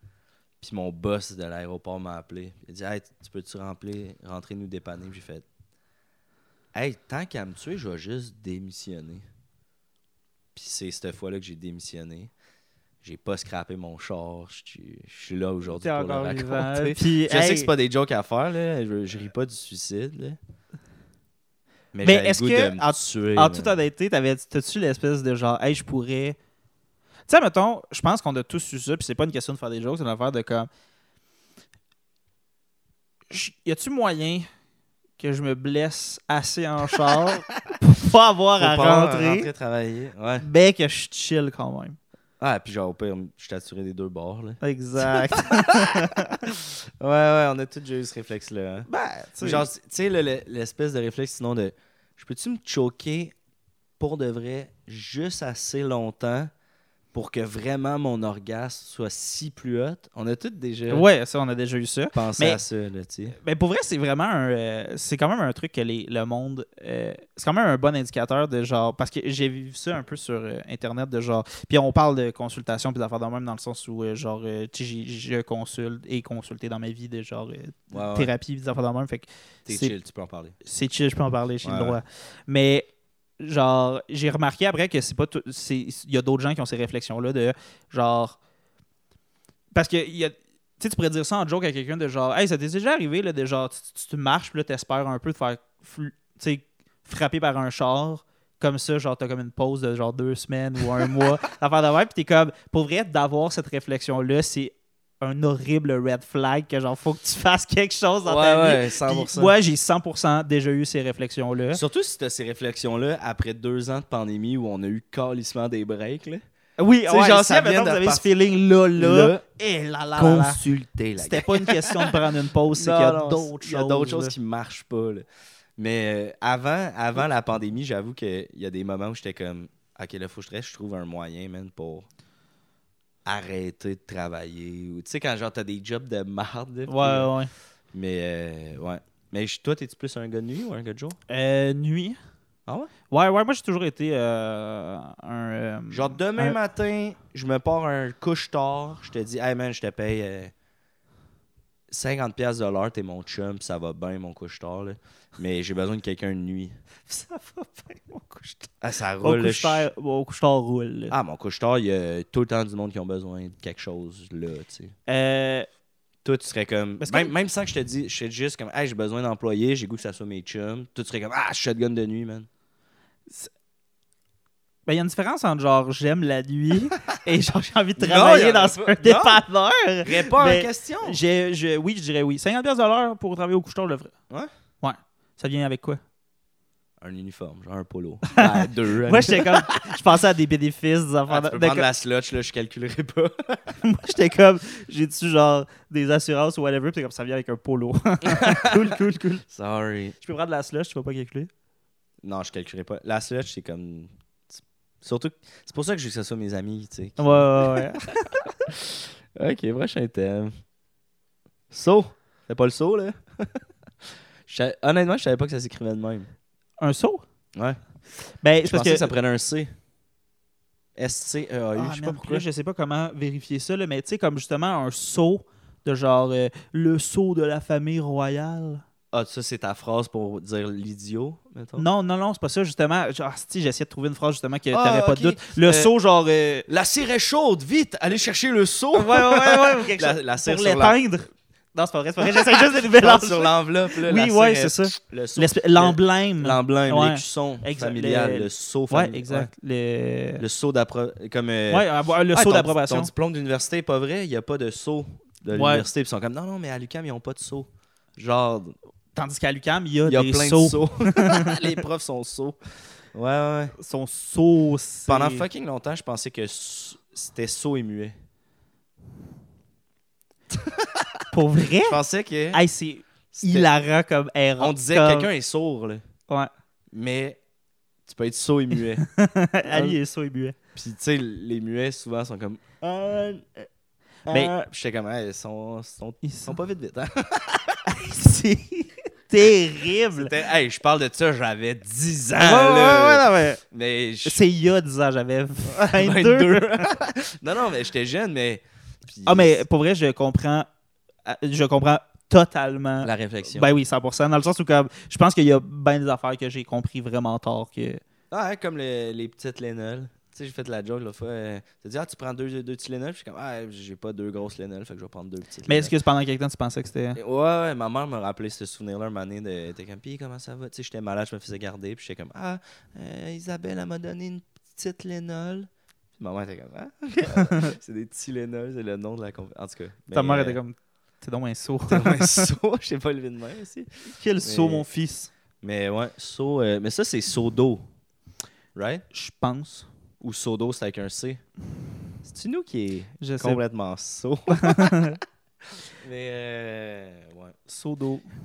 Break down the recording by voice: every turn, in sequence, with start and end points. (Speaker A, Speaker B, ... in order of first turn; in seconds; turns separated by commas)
Speaker A: 0.6-5.5, Speaker A: 6.7-9.2, Speaker A: 10.5-12.3, Speaker A: 13.0-20.4, Speaker B: 15.7-17.7, Speaker A: 21.9-23.7, Speaker B: 22.0-26.4, Speaker B: 27.3-30.7, Speaker B: 33.3-34.5, Speaker B: 35.2-39.5, Speaker A: 38.6-40.5, Speaker B: 40.4-42.0, Speaker A: 42.4-48.9, Speaker B: 44.6-46.4, Speaker B: 48.9-49.7, Speaker A: 49.4-53.3, Speaker A: 54.0-56.5, Speaker A: 57.1-61.0, Speaker B: 60.9-62.6, Speaker A: 62.1-63.4, Speaker B: 63.4-80.0, Speaker A: 77.9-78.3, Speaker A: 79.7-80.5, Speaker B: 80.6-82.9, Speaker A: 81.6-82.0, Speaker B: 83.4-88.4, Speaker B: 89.7-111.8, Speaker A: 108.2-109.5, Speaker A: 111.7-116.4, Speaker B: 116.8-120.6, Speaker A: 117.0-118.3, Speaker A: 119.0-119.4, Speaker A: 120.2-125.2, Speaker B: 121.2-124.3, Speaker A: 125.8-132.1, Speaker A: 133.2-137.3, Speaker B: 136.9-137.5, Speaker A: 137.9-141.2, Speaker B: 141.3-142.2, Speaker B: 143.1-146.6, Speaker A: 145.9-150.5, Speaker A: 151.9-156.8, Speaker B: 157.0-161.1, Speaker A: 158.8-159.9, Speaker A: 161.1-164.9, Speaker B: 165.1-165.7, Speaker A: 166.2-172.5, Speaker B: 167.0-167.3, Speaker B: 174.8-184.1, Speaker A: 178.0-179.4, Speaker A: 180.0-181.2, Speaker B: 184.8-186.0, Speaker A: 187.0-189.8, Speaker B: 188.3-191.9, Speaker A: 191.3-193.8, Speaker B: 193.8-199.4, Speaker A: 198.4-198.7, Speaker A: 199.5-200.2, Speaker B: 200.2-201.5, Speaker A: 202.2-208.0, Speaker B: 207.2-208.7, Speaker A: 208.7-210.5, Speaker A: 211.7-213.6, Speaker A: 214.5-216.3, Speaker B: 216.8-217.2, Speaker B: 218.4-219.1, Speaker A: 218.6-219.7, Speaker A: 221.0-222.4, Speaker B: 221.7-228.8, Speaker A: 229.1-231.8, Speaker B: 231.8-236.7, Speaker A: 234.7-235.9, Speaker A: 236.7-241.0, Speaker B: 238.9-250.4, Speaker A: 242.2-249.5, Speaker A: 250.4-258.7, Speaker B: 251.7-253.1, Speaker B: 255.5-255.9, Speaker B: 259.1-261.6, Speaker A: 260.0-262.6, Speaker A: 263.1-263.8, Speaker B: 263.8-265.5, Speaker A: 265.1-268.1, Speaker A: 270.6-271.1, Speaker B: 271.3-272.0, Speaker A: 271.8-272.6, Speaker B: 272.5-275.3, Speaker A: 273.3-273.7, Speaker A: 274.6-276.0, Speaker A: 276.9-277.4, Speaker A: 278.1-279.0, Speaker B: 279.0-280.6, Speaker A: 279.7-280.0, Speaker A: 280.7-283.7, Speaker B: 284.2-284.5, Speaker A: 284.3-287.8, Speaker B: 286.2-286.6, Speaker B: 287.9-290.3, Speaker A: 290.1-294.4, Speaker B: 292.4-293.6, Speaker B: 294.2-296.9, Speaker A: 295.7-299.6, Speaker B: 299.2-300.7, Speaker B: 301.2-308.0, Speaker A: 303.0-303.7, Speaker A: 308.3-315.9, Speaker B: 315.6-317.2, Speaker A: 317.1-330.6, Speaker B: 327.3-327.6, Speaker B: 330.1-332.5, Speaker A: 331.9-333.9, Speaker B: 334.0-335.3, Speaker A: 334.4-334.8, Speaker A: 335.6-337.8, Speaker A: 338.7-339.0, Speaker B: 339.1-339.9, Speaker A: 340.2-341.4, Speaker A: 342.2-345.1, Speaker B: 343.2-343.6, Speaker B: 344.5-345.2, Speaker A: 346.0-347.6, Speaker B: 347.7-348.3